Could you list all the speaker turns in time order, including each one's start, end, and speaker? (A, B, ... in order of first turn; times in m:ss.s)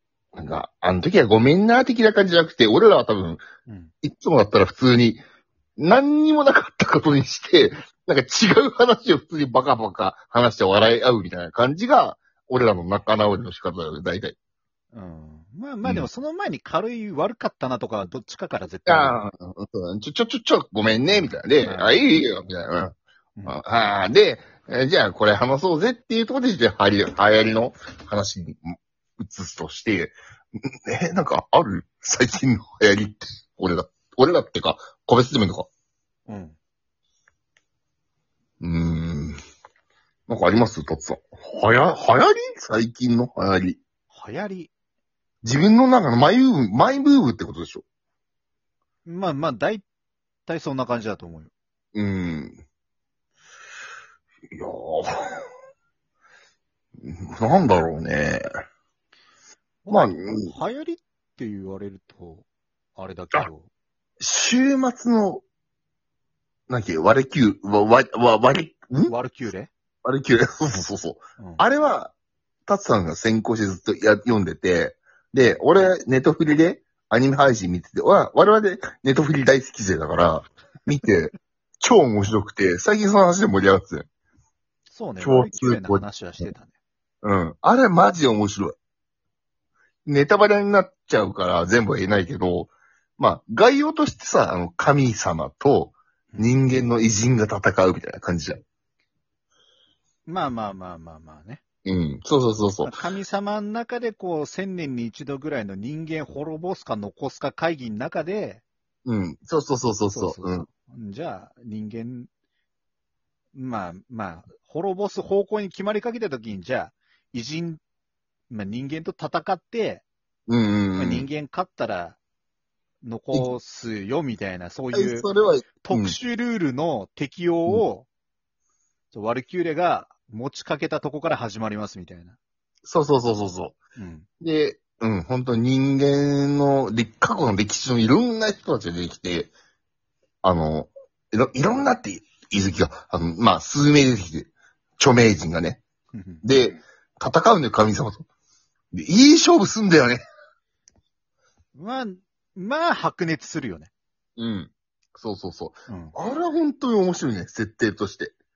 0:00.3-0:03.4 A
0:03.7-0:03.9 B
0:04.0-0:05.2 A
0:05.8-0:14.3 A
0:14.9-0:19.2 B
0:18.8-0:22.9 A
0:21.6-0:22.0 B
0:23.4-0:35.7 A
0:36.3-0:36.6 B
0:38.6-0:39.4 A
0:40.3-0:43.8 A
0:44.1-0:44.7 B
0:45.4-0:47.8 A
0:49.1-0:49.8 B
0:50.4-0:51.5 B
0:51.9-0:52.6 A
0:54.5-0:55.3 A
0:57.0-0:58.4 A
0:59.8-1:02.4 B
0:59.9-1:00.5 A
1:03.0-1:03.7 B
1:04.2-1:05.4 A
1:06.7-1:09.1 A
1:09.1-1:09.7 B
1:10.0-1:12.1 A
1:12.7-1:24.1 A
1:24.9-1:26.7 B
1:25.2-1:26.0 A
1:27.2-1:28.7 A
1:30.0-1:38.6 A
1:36.3-1:36.6 B
1:40.2-1:41.6 B
1:41.9-1:43.0 A
1:42.8-1:48.6 B
1:49.0-1:50.6 A
1:50.1-1:52.3 B
1:53.5-1:57.8 B
1:58.5-2:00.0 B
2:00.5-2:01.3 A
2:01.0-2:02.2 B
2:03.0-2:05.3 B
2:04.9-2:06.2 A
2:05.8-2:08.1 B
2:09.1-2:12.4 B
2:12.8-2:13.8 A
2:14.0-2:14.3 B
2:14.4-2:19.5 A
2:20.4-2:25.8 A
2:26.1-2:26.5 B
2:26.4-2:28.2 A
2:28.9-2:30.2 A
2:31.8-2:33.9 B
2:34.4-2:38.3 A
2:35.9-2:36.1 B